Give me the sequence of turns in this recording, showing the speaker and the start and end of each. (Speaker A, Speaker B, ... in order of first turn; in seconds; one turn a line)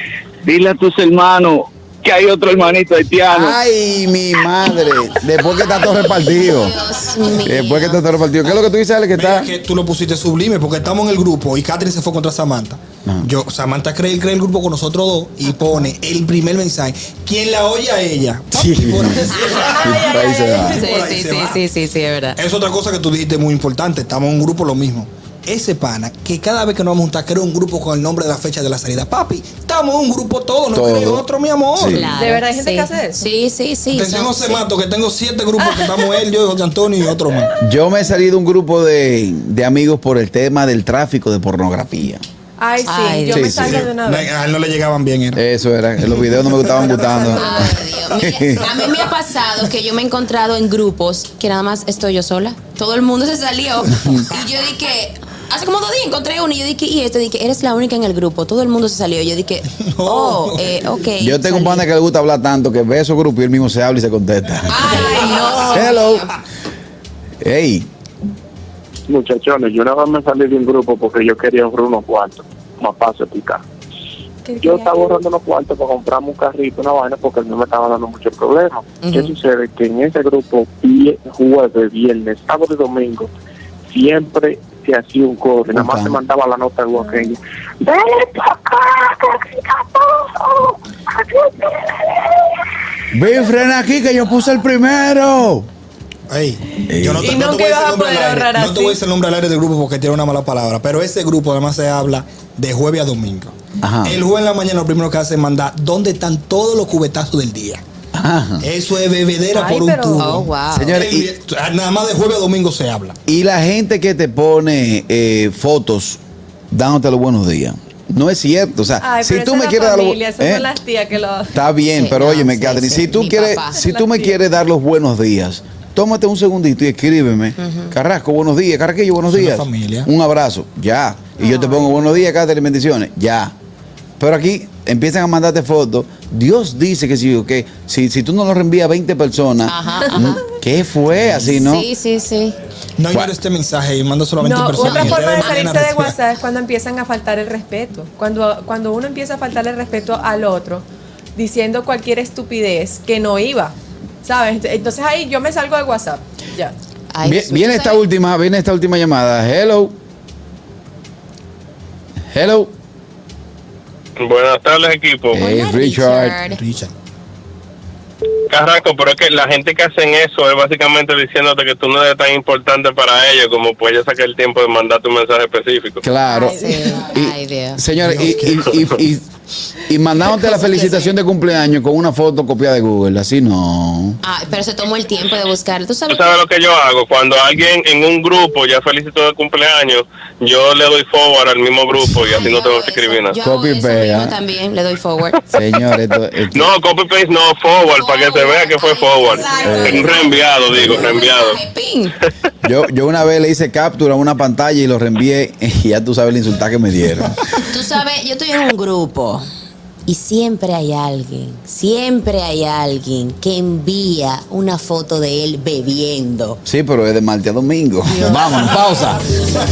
Speaker A: 0.4-3.5
Speaker B: 3.3-9.5
Speaker C: 5.8-8.0
Speaker D: 9.1-21.6
Speaker B: 13.0-13.3
Speaker B: 18.5-20.8
Speaker E: 19.6-20.9
Speaker C: 20.7-22.4
Speaker D: 22.4-32.1
Speaker B: 30.7-32.1
Speaker C: 31.9-34.6
Speaker E: 32.1-33.2
Speaker D: 33.9-37.5
Speaker E: 35.6-36.2
Speaker B: 37.6-42.2
Speaker E: 42.6-44.4
Speaker C: 42.8-43.6
Speaker B: 43.3-43.9
Speaker D: 43.6-45.4
Speaker B: 45.3-48.8
Speaker D: 46.5-47.3
Speaker E: 46.9-47.8
Speaker C: 47.3-61.8
Speaker D: 59.9-60.8
Speaker B: 61.2-66.3
Speaker C: 64.7-66.3
Speaker E: 64.8-65.9
Speaker B: 67.4-67.9
Speaker F: 69.1-73.6
Speaker E: 74.4-75.2
Speaker F: 74.6-83.3
Speaker C: 79.0-79.3
Speaker F: 83.9-90.7
Speaker B: 85.7-86.2
Speaker F: 91.4-91.9
Speaker B: 93.1-95.7
Speaker D: 96.3-107.8
Speaker B: 96.9-97.4
Speaker E: 97.2-99.0
Speaker B: 103.8-104.2
Speaker B: 108.1-108.7
Speaker D: 108.6-113.2
Speaker E: 109.5-110.3
Speaker C: 110.2-111.0
Speaker B: 110.7-111.3
Speaker B: 113.2-116.2
Speaker B: 116.7-120.7
Speaker E: 119.0-121.6
Speaker B: 121.5-133.5
Speaker C: 121.9-123.8
Speaker E: 123.8-124.3
Speaker C: 127.6-127.9
Speaker D: 129.3-130.1
Speaker E: 131.4-131.9
Speaker C: 131.4-131.8
Speaker B: 134.2-141.9
Speaker C: 139.7-140.4
Speaker D: 141.1-141.6
Speaker C: 141.5-142.6
Speaker D: 143.0-146.1
Speaker E: 144.4-150.8
Speaker C: 144.8-145.5
Speaker E: 151.3-156.7
Speaker C: 157.1-158.0
Speaker B: 157.2-160.0
Speaker B: 162.3-162.7
Speaker G: 164.2-165.5
Speaker B: 165.3-166.4
Speaker C: 165.3-166.6
Speaker D: 166.5-166.9
Speaker G: 168.5-176.0
Speaker B: 176.0-179.3
Speaker C: 176.3-177.8
Speaker E: 176.3-177.1
Speaker D: 177.9-178.9
Speaker B: 179.8-184.2
Speaker E: 180.5-181.0
Speaker C: 184.2-186.3
Speaker G: 186.1-193.4
Speaker C: 192.4-195.5
Speaker B: 193.4-194.3
Speaker B: 195.5-196.7
Speaker G: 196.5-201.6
Speaker C: 197.9-202.2
Speaker B: 199.6-201.0
Speaker B: 202.6-207.4
Speaker C: 207.6-209.4
Speaker C: 210.1-216.6
Speaker B: 216.6-219.3
Speaker C: 218.2-218.6